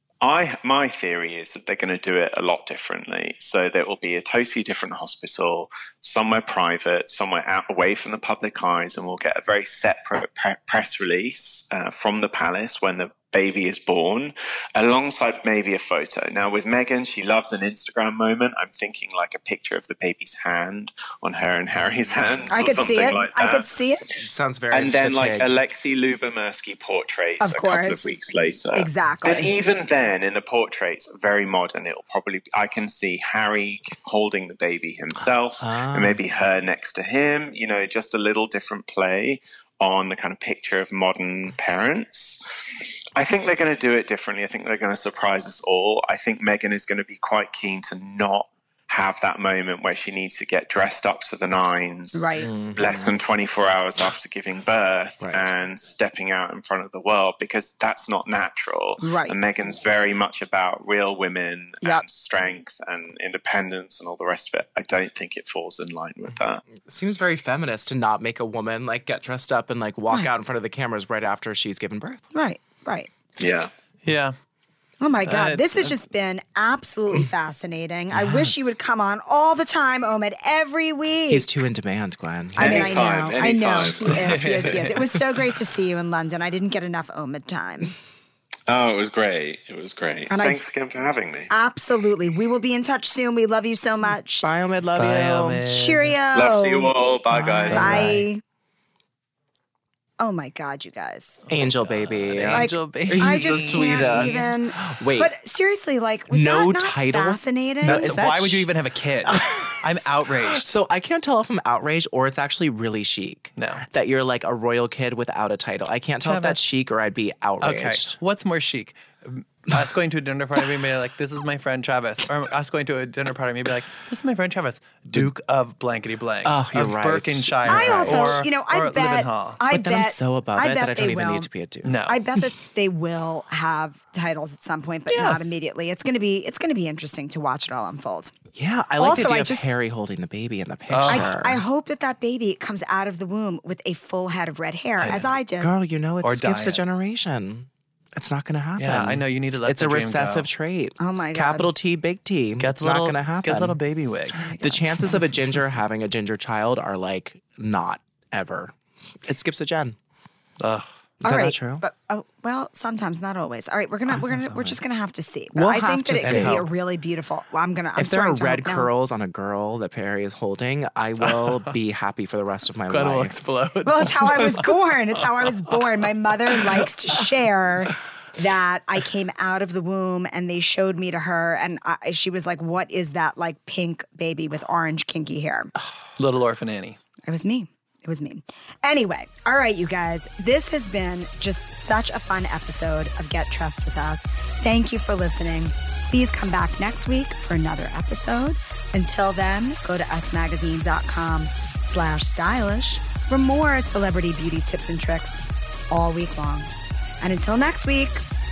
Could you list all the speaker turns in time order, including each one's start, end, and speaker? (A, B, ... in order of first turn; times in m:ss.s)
0:00.2-0:24.1 A
0:22.5-0:24.1 B
0:24.2-0:25.6 C
0:24.7-1:06.6 A
0:27.4-0:28.2 B
0:28.7-0:29.5 B
0:35.6-0:36.2 C
0:52.1-0:52.5 B
0:52.4-0:53.1 C
0:55.2-0:55.5 C
0:59.0-0:59.4 B
1:06.8-1:12.2 C
1:12.3-1:13.1 B
1:13.4-1:13.7 A
1:14.0-1:14.3 D
1:15.0-1:21.5 B
1:15.2-1:16.0 D
1:21.3-1:23.2 C
1:22.6-1:27.9 B
1:22.6-1:24.6 A
1:24.1-1:25.5 D
1:28.7-1:31.5 A
1:30.3-1:30.6 B
1:31.5-1:34.4 B
1:34.4-1:35.6 C
1:35.0-1:36.2 D
1:35.7-1:36.9 B
1:36.3-1:38.0 A
1:37.3-1:38.3 D
1:37.5-1:38.2 C
1:37.7-1:38.4 B
1:40.2-1:41.4 B
1:41.5-1:45.3 C
1:41.5-1:44.5 D
1:42.5-1:48.1 B
1:46.3-1:48.7 C
1:47.8-1:50.7 D
1:49.2-1:58.2 C
1:53.6-1:53.8 D
1:56.2-1:56.6 D
1:57.6-2:09.6 D
2:06.4-2:08.4 C
2:07.7-2:11.5 B
2:09.7-2:11.9 C
2:11.8-2:12.2 D
2:12.1-2:18.3 B
2:15.1-2:15.5 C
2:18.5-2:21.6 C
2:19.0-2:19.7 B
2:20.9-2:21.3 D
2:21.1-2:25.7 B
2:25.0-2:25.3 D
2:25.6-2:33.8 C
2:26.2-2:26.8 D
2:28.8-2:30.5 D
2:31.0-2:31.7 B
2:32.6-2:35.1 D
2:34.4-2:34.7 B
2:34.6-2:38.7 C
2:39.2-2:40.0 C
2:40.6-2:40.9 D
2:41.2-2:41.8 C
2:41.2-2:48.9 B
2:44.2-2:44.8 C
2:45.5-2:46.7 C
2:46.2-2:46.7 D
2:48.0-2:53.4 C
2:51.2-2:51.7 D
2:52.9-2:54.7 D
2:53.8-3:05.7 B
2:56.5-2:56.9 D
3:06.2-3:07.0 D
3:07.3-3:28.2 B